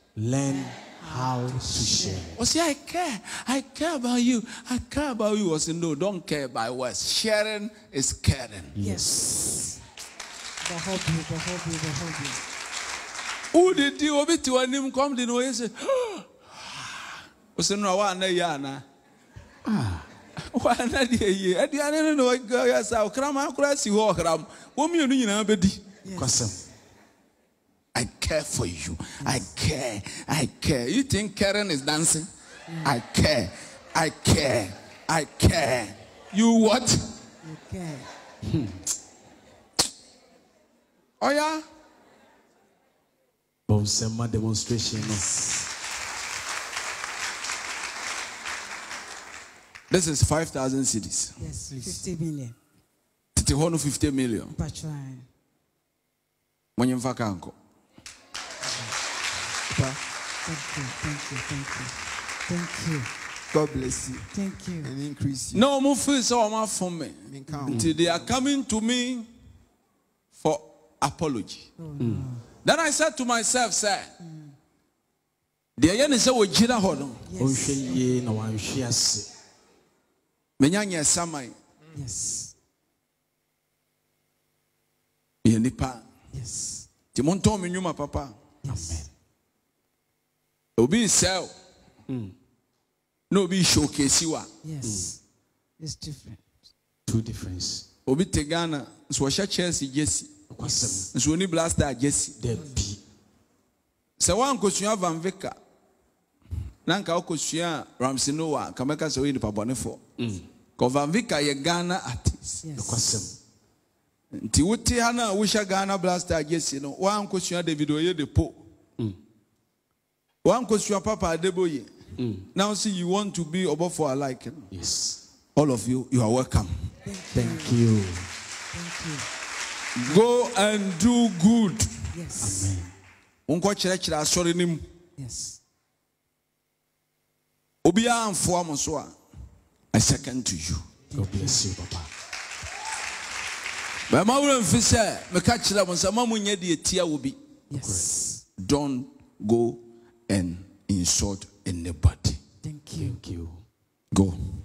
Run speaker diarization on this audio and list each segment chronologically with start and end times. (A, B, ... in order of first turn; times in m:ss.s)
0:00.2-0:02.4 A
0:00.5-0:02.3 B
0:02.3-0:08.8 C
0:08.8-0:09.4 A
0:08.8-0:09.8 B
0:10.6-0:12.4 B
0:13.5-0:18.8 C
0:19.6-0:20.1 A
0:20.5-0:25.8 C
0:26.0-0:26.4 B
0:26.2-0:26.7 A
0:27.9-0:32.3 C
0:29.2-0:29.5 B
0:32.7-0:32.9 B
0:32.8-0:37.0 C
0:37.4-0:38.1 B
0:38.4-0:38.8 A
0:41.2-0:41.6 C
0:43.7-0:45.3 A
0:45.0-0:45.7 B
0:49.9-0:51.4 C
0:51.4-0:52.6 B
0:53.4-0:54.5 C
0:54.5-0:55.3 B
0:56.8-0:57.6 C
0:58.6-0:59.0 B
0:59.7-1:00.0 D
1:00.4-1:03.1 B
1:03.5-1:04.3 D
1:04.3-1:04.9 B
1:04.8-1:05.6 D
1:05.5-1:09.3 C
1:07.3-1:08.4 D
1:07.7-1:08.0 A
1:10.4-1:11.7 C
1:11.8-1:12.4 B
1:12.0-1:12.3 A
1:12.6-1:14.1 C
1:14.2-1:14.6 B
1:15.8-1:17.2 C
1:17.2-1:18.0 B
1:17.4-1:19.3 A
1:20.6-1:21.6 C
1:21.9-1:22.5 B
1:25.4-1:26.0 C
1:26.3-1:26.9 B
1:27.1-1:28.4 C
1:28.6-1:29.1 B
1:28.7-1:29.1 A
1:30.8-1:31.5 C
1:32.1-1:32.3 A
1:33.3-1:34.5 C
1:34.6-1:35.2 B
1:34.8-1:35.1 A
1:35.8-1:36.4 B
1:37.1-1:37.9 A
1:38.1-1:40.3 C
1:40.5-1:41.1 A
1:41.1-1:42.4 C
1:42.4-1:43.0 A
1:44.2-1:45.6 C
1:46.8-1:50.0 C
1:50.2-1:50.5 A
1:50.8-1:52.6 C
1:52.6-1:53.2 B
1:52.8-1:53.4 A
1:54.3-1:58.6 C
2:00.4-2:01.9 C
2:02.2-2:02.5 A
2:02.5-2:04.7 C
2:04.7-2:05.2 A
2:05.6-2:06.7 C
2:07.0-2:07.8 B
2:07.3-2:08.3 A
2:08.7-2:09.3 B
2:10.0-2:12.0 C
2:12.1-2:12.8 B
2:12.4-2:12.9 A
2:13.5-2:14.8 C
2:15.2-2:15.6 B
2:17.8-2:19.1 C
2:19.9-2:20.8 C
2:21.1-2:21.6 B
2:21.1-2:22.1 A
2:24.1-2:27.4 C
2:27.7-2:28.4 B
2:27.8-2:28.1 A
2:28.6-2:32.4 C
2:32.6-2:33.2 B
2:33.0-2:33.6 A
2:34.1-2:34.4 C